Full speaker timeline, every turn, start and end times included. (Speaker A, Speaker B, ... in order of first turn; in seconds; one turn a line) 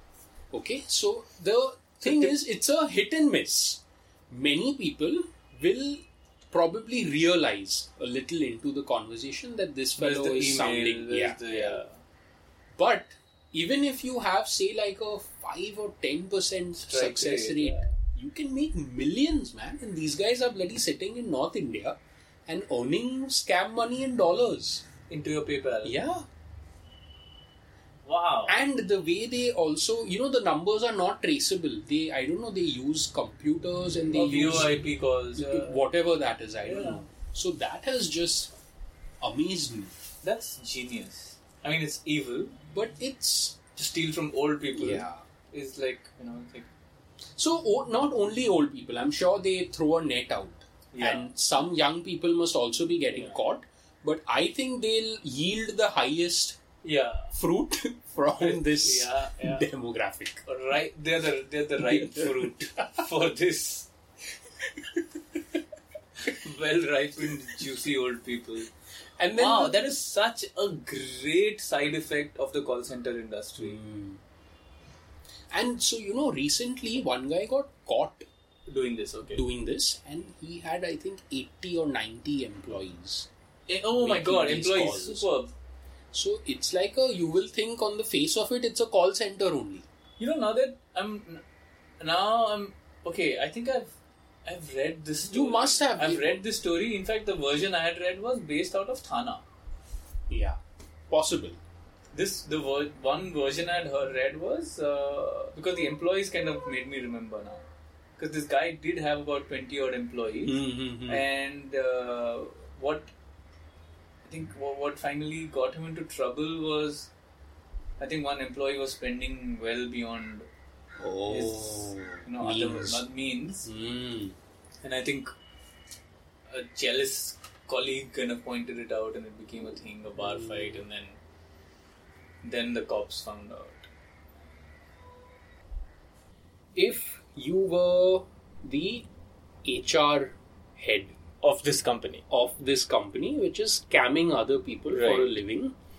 Speaker A: 0.5-11.8
Speaker B: 2.0-2.4
Speaker B: 10.0-12.0
Speaker A: 12.7-24.8
Speaker B: 16.8-17.9
Speaker B: 25.1-25.9
Speaker A: 25.8-26.2
Speaker B: 28.1-28.6
Speaker A: 28.4-38.5
Speaker B: 34.1-35.8
Speaker B: 36.6-37.0
Speaker A: 39.2-40.0
Speaker B: 40.2-42.5
Speaker A: 42.7-43.6
Speaker B: 43.8-46.7
Speaker A: 44.7-45.2
Speaker A: 47.4-56.6
Speaker B: 50.9-51.4
Speaker B: 53.1-53.4
Speaker B: 56.8-57.3
Speaker A: 57.3-60.4
Speaker B: 58.4-59.7
Speaker B: 60.5-63.9
Speaker A: 61.8-63.0
Speaker B: 66.2-68.7
Speaker A: 69.2-69.9
Speaker B: 69.3-73.8
Speaker A: 73.6-74.2
Speaker A: 75.5-78.2
Speaker B: 78.7-79.4
Speaker A: 79.3-83.3
Speaker B: 83.7-85.5
Speaker A: 83.9-85.3
Speaker A: 86.1-89.8
Speaker B: 90.2-91.4
Speaker B: 92.0-93.9
Speaker B: 94.5-99.4
Speaker A: 95.3-96.4
Speaker A: 100.3-101.6
Speaker B: 102.1-107.6
Speaker B: 108.2-113.1
Speaker A: 110.4-111.2
Speaker B: 114.2-117.1
Speaker B: 118.0-120.5
Speaker A: 121.0-123.0
Speaker B: 121.3-123.7
Speaker A: 123.6-124.3
Speaker B: 124.8-125.3
Speaker B: 126.5-131.2
Speaker A: 130.2-130.8
Speaker B: 132.4-133.9
Speaker A: 136.8-139.1
Speaker A: 139.6-141.2
Speaker B: 141.4-142.2
Speaker A: 142.3-145.7
Speaker B: 144.9-145.4